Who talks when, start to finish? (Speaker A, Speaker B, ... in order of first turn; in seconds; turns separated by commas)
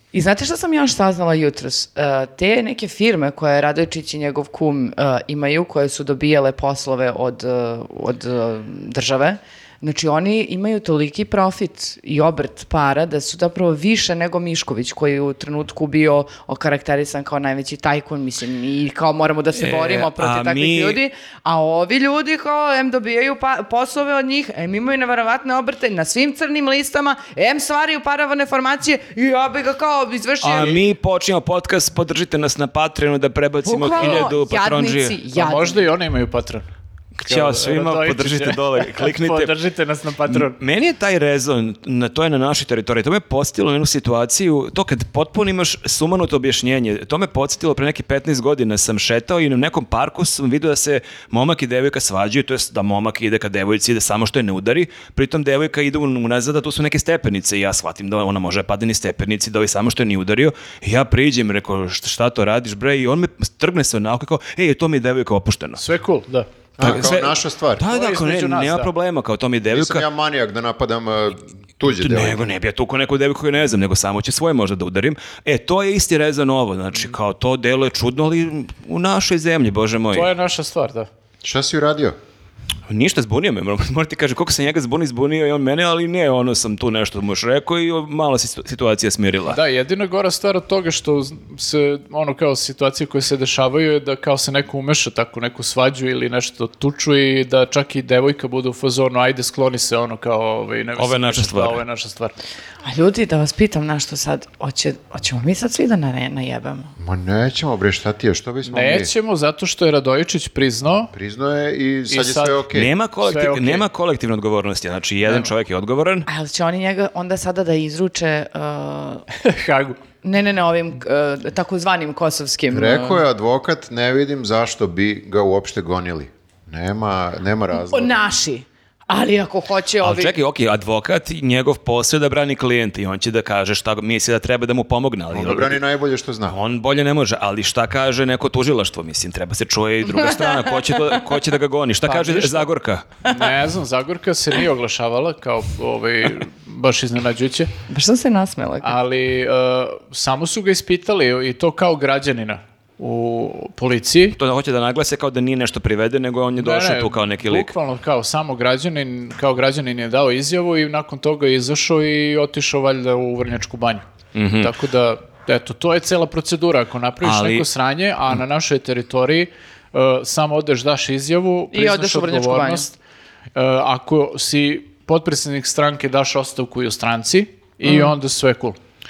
Speaker A: 0.1-30.8, Speaker B: 19.6-21.0, Speaker B: 30.4-35.2, Speaker A: 33.6-35.9, Speaker C: 34.0-34.3, Speaker C: 35.3-36.6, Speaker B: 37.2-39.5, Speaker C: 37.2-40.5, Speaker B: 40.3-65.8, Speaker C: 65.8-66.5, Speaker D: 66.8-67.8, Speaker B: 66.8-70.0, Speaker C: 67.9-68.9, Speaker D: 69.7-72.5, Speaker B: 71.9-80.3, Speaker C: 80.1-81.1, Speaker D: 81.4-82.2, Speaker B: 82.9-89.6, Speaker C: 89.5-102.3, Speaker B: 101.0-101.8, Speaker A: 102.8-106.9, Speaker D: 107.0-109.1, Speaker C: 108.6-111.1, Speaker D: 111.1-112.9, Speaker C: 112.1-112.6, Speaker B: 112.7-116.3, Speaker C: 113.2-113.8, Speaker A: 116.3-119.2, Speaker C: 119.4-120.0, Speaker A: 120.2-123.2, Speaker D: 122.7-128.1, Speaker A: 127.7-130.3, Speaker B: 130.0-135.8, Speaker D: 135.3-136.5, Speaker B: 136.5-143.1, Speaker A: 140.1-141.2, Speaker C: 142.0-142.7, Speaker C: 143.2-147.7, Speaker A: 147.9-148.9, Speaker C: 148.8-154.4, Speaker B: 154.3-157.7, Speaker C: 156.6-164.1, Speaker B: 164.3-164.7, Speaker C: 164.6-172.9, Speaker B: 167.2-167.7, Speaker A: 171.7-172.9, Speaker C: 173.5-178.8, Speaker A: 177.8-178.1